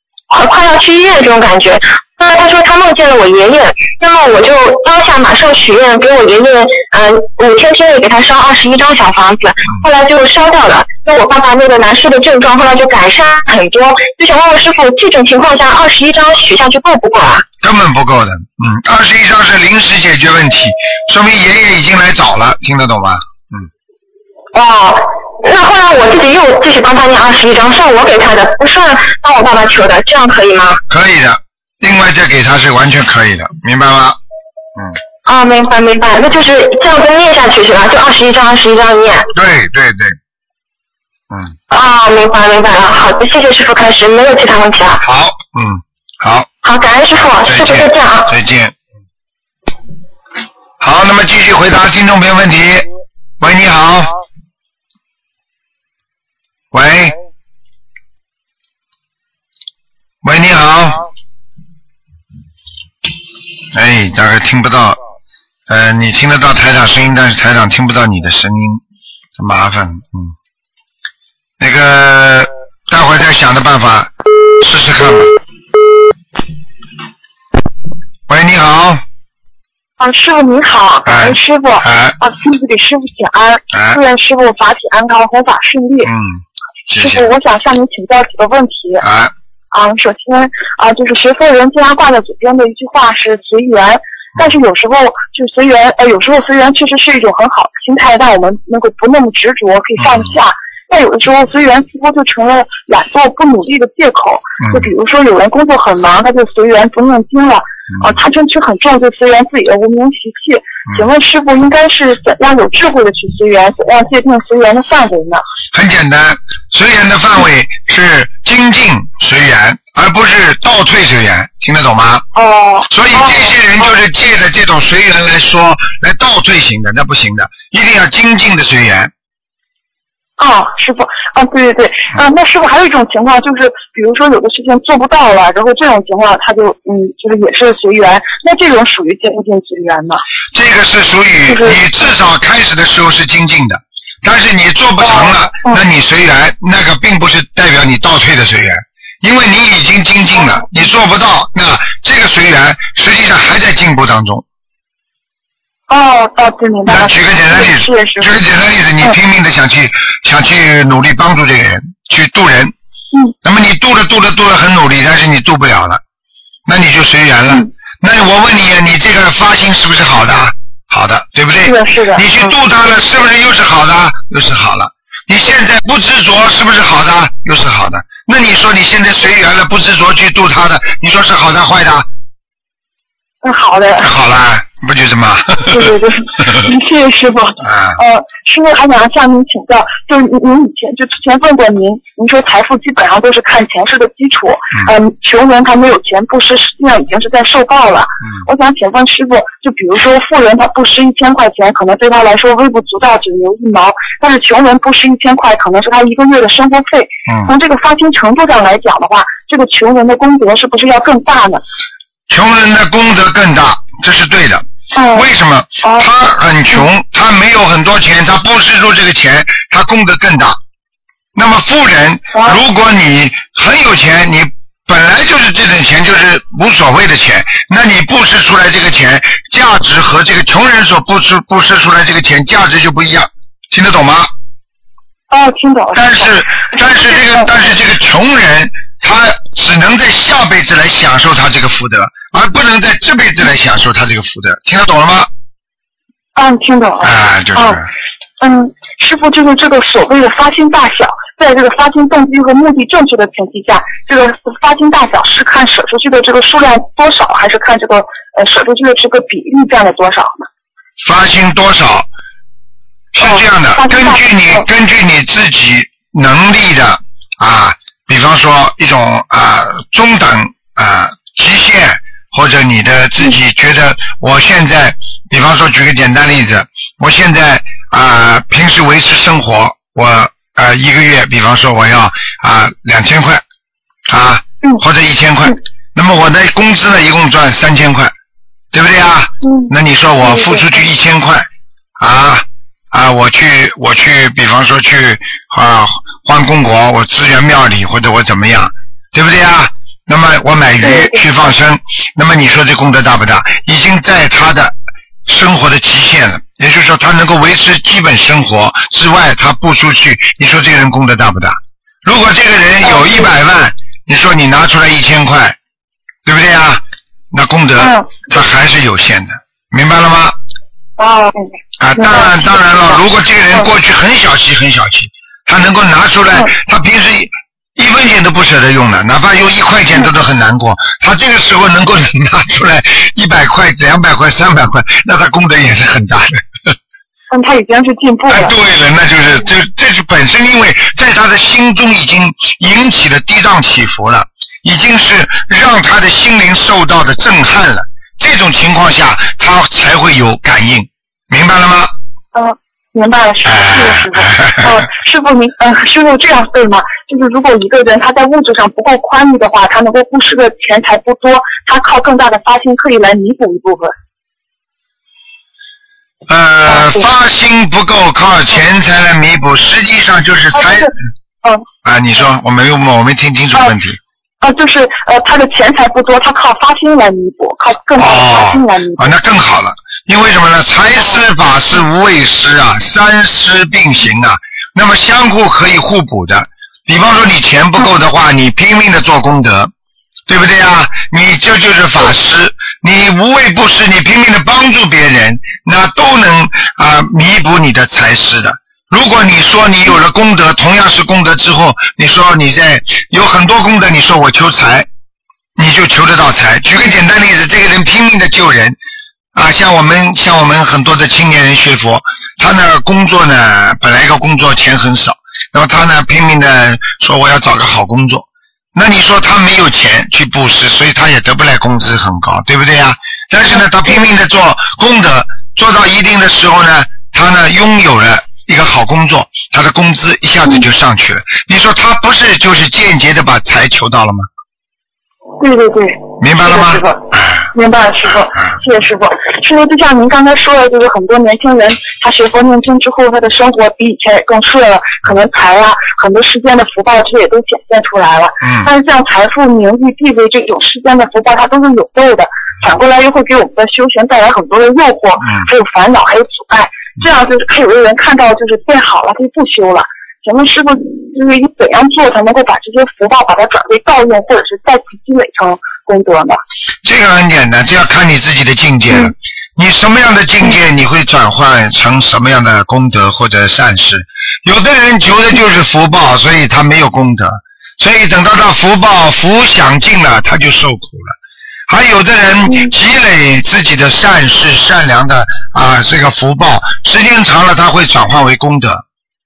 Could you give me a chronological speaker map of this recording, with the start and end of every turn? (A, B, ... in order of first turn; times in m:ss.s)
0:00.3-0:17.4 A
0:17.6-0:23.7 B
0:24.5-0:30.8 A
0:30.9-0:34.2 B
0:35.2-0:39.3 A
0:39.3-0:40.2 B
0:41.3-0:41.6 B
0:41.7-0:45.0 A
0:45.0-0:46.5 B
0:46.6-0:48.4 A
0:47.1-0:48.7 B
0:50.8-0:52.9 B
0:53.4-0:54.1 B
0:56.7-0:57.2 B
1:00.2-1:01.0 B
1:03.7-1:05.0 B
1:05.7-1:08.8 B
1:09.4-1:10.3 B
1:11.6-1:15.3 B
1:18.3-1:19.0 B
1:20.0-1:26.1 C
1:21.1-1:22.2 B
1:23.7-1:24.0 B
1:26.0-1:27.3 B
1:27.0-1:29.0 C
1:29.0-1:29.3 B
1:29.7-1:55.4 C
1:40.0-1:40.3 B
1:44.6-1:44.9 B
1:55.7-2:02.3 B
2:02.4-2:03.6 C
2:02.9-2:09.1 B
2:10.4-2:20.2 C
2:20.5-2:34.4 B
2:21.5-2:21.8 C
2:25.0-2:25.8 C
2:35.9-2:38.4 C
2:36.9-2:42.7 B
2:43.4-2:46.0 B
2:46.7-3:02.1 B
2:51.6-2:52.2 C
3:03.4-3:04.1 C
3:04.0-3:06.7 B
3:05.7-3:31.6 C
3:07.6-3:08.0 B
3:32.3-3:40.6 B
3:35.0-3:35.2 C
3:41.4-3:54.3 B
3:55.3-3:57.6 C
3:56.0-4:05.3 B
4:06.4-4:07.8 C
4:07.0-4:07.9 B
4:08.4-4:20.5 C
4:21.0-4:22.1 B
4:23.1-4:43.4 B
4:23.2-4:24.6 C
4:44.1-4:48.1 B
4:48.7-4:51.5 B
4:49.4-4:49.7 C
4:50.2-4:50.7 C
4:52.0-5:04.8 B
5:00.8-5:01.2 C
5:05.3-5:15.6 B
5:16.2-5:20.4 B
5:17.8-5:18.1 C
5:21.0-5:22.3 C
5:21.8-5:36.7 B
5:37.3-5:38.5 C
5:38.3-5:51.9 B
5:52.3-6:03.9 C
5:53.4-5:54.9 B
6:06.3-6:10.9 B
6:06.7-6:07.0 C
6:10.6-6:11.6 C
6:11.8-6:14.0 B
6:14.4-6:19.2 C
6:18.0-6:29.7 B
6:30.3-6:44.9 B
6:45.6-6:48.8 B
6:49.4-7:14.3 B
7:15.4-7:46.4 C
7:16.2-7:17.5 B
7:28.4-7:28.7 B
7:35.2-7:35.5 B
7:46.8-8:01.2 B
8:01.7-8:08.8 B